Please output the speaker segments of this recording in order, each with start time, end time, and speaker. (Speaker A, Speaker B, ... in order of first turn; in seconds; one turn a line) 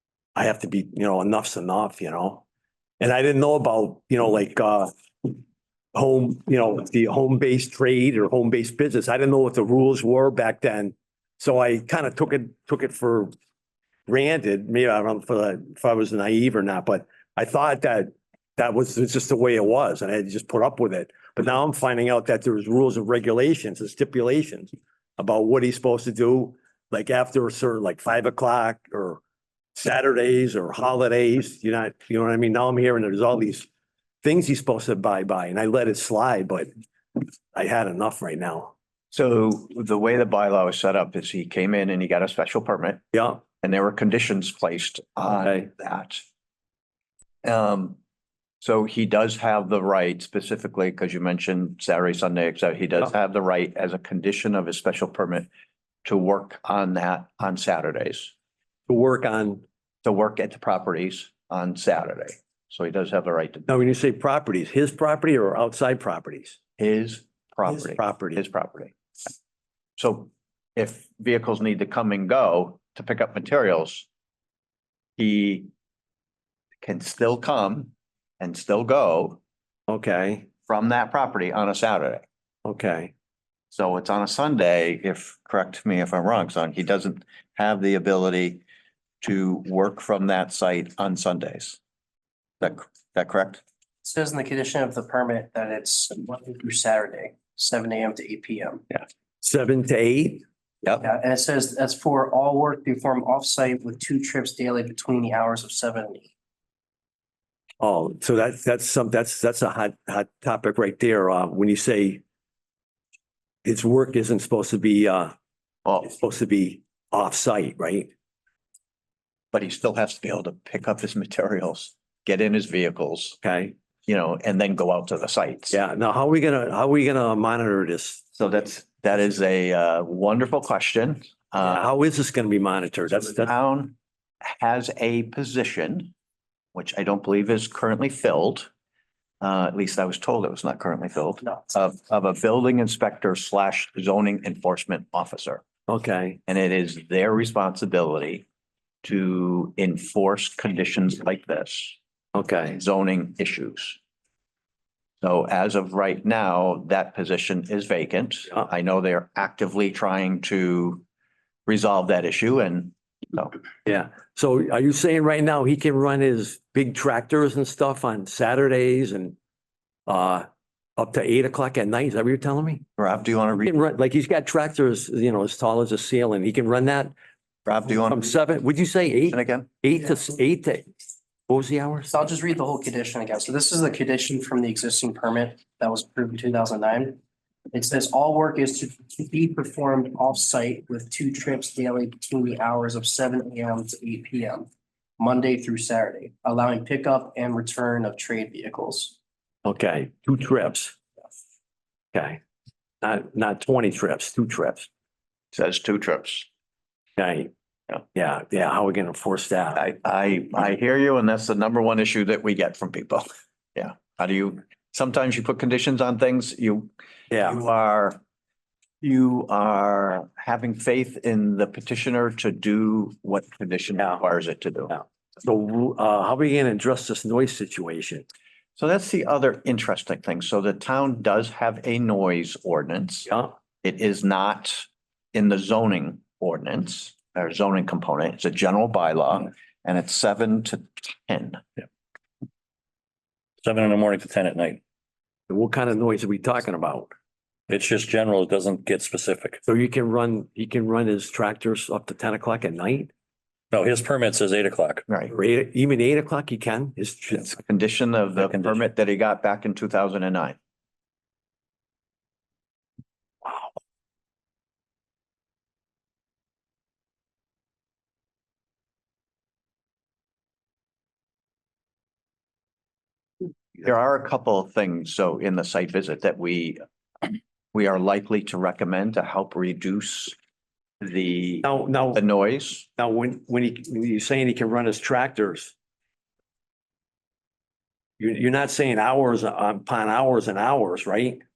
Speaker A: 0.3-2.4
Speaker A: 3.0-5.4
Speaker A: 5.9-13.3
Speaker A: 14.1-29.2
Speaker A: 29.7-33.7
Speaker A: 34.2-38.7
Speaker B: 39.1-46.2
Speaker A: 43.1-43.4
Speaker B: 47.4-48.0
Speaker B: 48.6-55.5
Speaker B: 56.0-58.3
Speaker A: 58.9-59.6
Speaker B: 60.0-63.7
Speaker A: 63.7-66.6
Speaker B: 66.8-68.9
Speaker A: 67.7-68.4
Speaker B: 70.0-74.1
Speaker B: 75.2-75.7
Speaker B: 76.8-79.4
Speaker A: 79.9-80.5
Speaker B: 80.7-82.2
Speaker A: 82.6-83.1
Speaker B: 83.7-88.6
Speaker B: 89.2-91.8
Speaker B: 92.6-93.6
Speaker C: 94.0-98.8
Speaker A: 99.4-100.4
Speaker C: 101.0-106.3
Speaker A: 107.8-112.2
Speaker A: 113.6-115.3
Speaker B: 115.8-116.1
Speaker A: 116.0-118.1
Speaker B: 119.5-123.4
Speaker A: 123.4-123.7
Speaker B: 124.0-125.8
Speaker A: 125.7-128.3
Speaker B: 128.4-131.8
Speaker A: 131.6-133.5
Speaker B: 133.4-136.1
Speaker B: 136.7-138.7
Speaker B: 139.4-145.6
Speaker A: 145.9-146.4
Speaker B: 146.5-148.4
Speaker B: 149.0-152.0
Speaker A: 152.3-152.8
Speaker B: 152.6-154.0
Speaker B: 155.2-161.0
Speaker B: 161.7-163.6
Speaker A: 163.8-169.3
Speaker A: 170.1-172.8
Speaker B: 173.0-173.7
Speaker A: 173.6-177.1
Speaker B: 177.6-178.4
Speaker A: 177.9-180.9
Speaker B: 179.3-179.7
Speaker A: 181.5-182.2
Speaker C: 182.1-187.2
Speaker C: 187.7-194.7
Speaker C: 195.2-199.1
Speaker A: 199.6-201.0
Speaker A: 202.1-202.4
Speaker A: 203.0-204.9
Speaker B: 205.5-206.5
Speaker A: 207.2-207.5
Speaker A: 208.1-209.8
Speaker B: 209.8-218.2
Speaker A: 217.3-217.6
Speaker B: 219.0-224.9
Speaker A: 224.0-224.2
Speaker A: 224.9-228.2
Speaker B: 228.8-233.3
Speaker A: 233.3-233.5
Speaker B: 233.8-241.6
Speaker D: 243.6-244.8
Speaker A: 245.5-247.1
Speaker D: 247.7-249.6
Speaker A: 249.7-253.1
Speaker D: 253.7-255.0
Speaker B: 255.1-255.3
Speaker A: 255.3-257.6
Speaker B: 257.3-260.6
Speaker B: 273.7-280.4
Speaker B: 281.0-282.9
Speaker A: 281.6-282.2
Speaker A: 283.0-285.7
Speaker A: 288.2-291.4